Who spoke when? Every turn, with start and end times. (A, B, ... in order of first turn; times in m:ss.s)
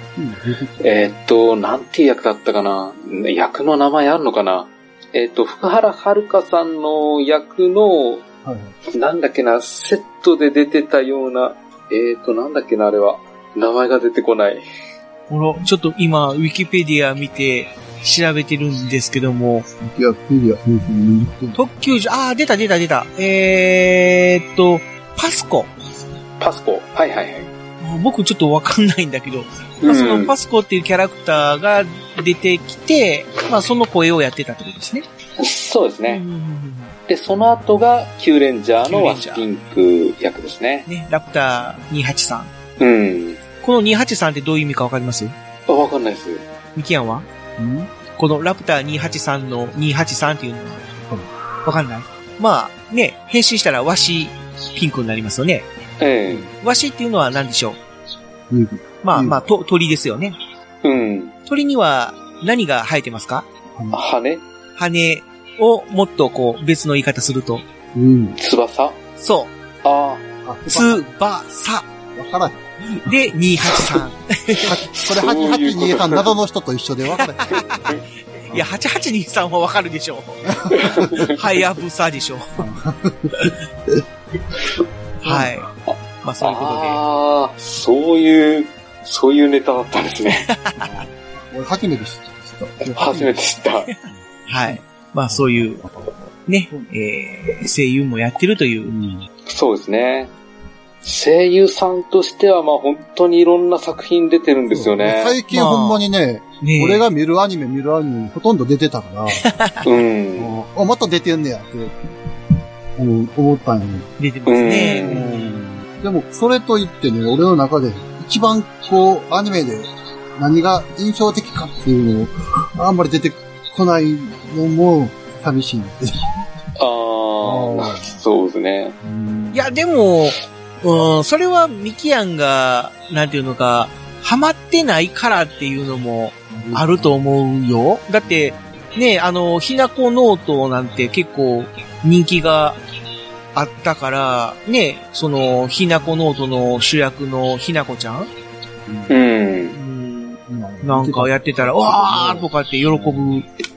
0:00.2-0:00.9 A
0:00.8-0:08.2 B
0:08.4-0:08.7 A
0:08.9-0:14.6 B
0:15.3-0:19.7 C
0:19.8-0:21.6 A
0:21.5-0:25.7 C
0:26.4-0:27.5 B
0:27.8-0:35.0 C
0:29.8-0:30.3 B
0:35.4-0:36.2 B
0:36.1-0:36.9 C
0:37.1-0:40.9 B
0:38.8-0:39.4 C
0:40.8-0:42.5 C
0:42.8-0:43.4 B
0:43.6-0:45.3 C
0:45.7-0:46.4 B
0:46.7-0:47.2 C
0:47.6-0:47.9 A
0:48.2-0:50.8 C
0:51.0-0:51.3 A
0:51.6-0:55.7 C
0:56.0-0:56.5 B
0:56.6-0:57.8 C
0:58.5-0:59.4 A
0:59.0-1:00.4 C
1:00.8-1:01.3 B
1:01.4-1:03.4 C
1:03.7-1:04.0 A
1:03.9-1:04.4 B
1:04.8-1:07.6 C
1:07.9-1:08.4 A
1:08.4-1:09.0 B
1:09.2-1:09.5 C
1:09.8-1:10.2 B
1:10.4-1:11.0 A
1:10.7-1:11.8 C
1:12.1-1:13.4 A
1:13.1-1:14.7 C
1:14.5-1:17.6 A
1:14.9-1:16.3 B
1:17.2-1:22.6 C
1:17.5-1:18.0 B
1:18.5-1:18.7 A
1:20.5-1:21.3 A
1:20.7-1:21.4 B
1:22.6-1:24.0 A
1:25.2-1:25.7 C
1:25.2-1:25.5 A
1:26.2-1:27.0 C
1:26.4-1:30.4 B
1:30.4-1:30.9 C
1:30.8-1:33.4 A
1:32.9-1:33.9 B
1:34.1-1:35.9 A
1:34.5-1:35.8 C
1:36.5-1:39.0 C
1:38.8-1:39.2 A
1:39.4-1:40.3 B
1:41.0-1:45.4 B
1:44.7-1:49.5 A
1:45.5-1:46.0 C
1:46.6-1:47.1 C
1:49.4-1:49.8 C
1:49.8-1:50.5 B
1:50.4-1:51.9 A
1:53.0-1:54.1 A
1:54.2-1:55.6 C
1:54.4-1:55.2 B
1:55.0-2:06.4 A
2:06.8-2:09.0 B
2:07.4-2:08.2 A
2:09.0-2:09.7 A
2:09.5-2:22.8 C
2:16.5-2:17.3 A
2:18.2-2:18.6 A
2:23.5-2:28.3 C
2:28.9-2:29.2 A
2:29.1-2:29.8 B
2:29.7-2:33.4 C
2:30.5-2:33.4 A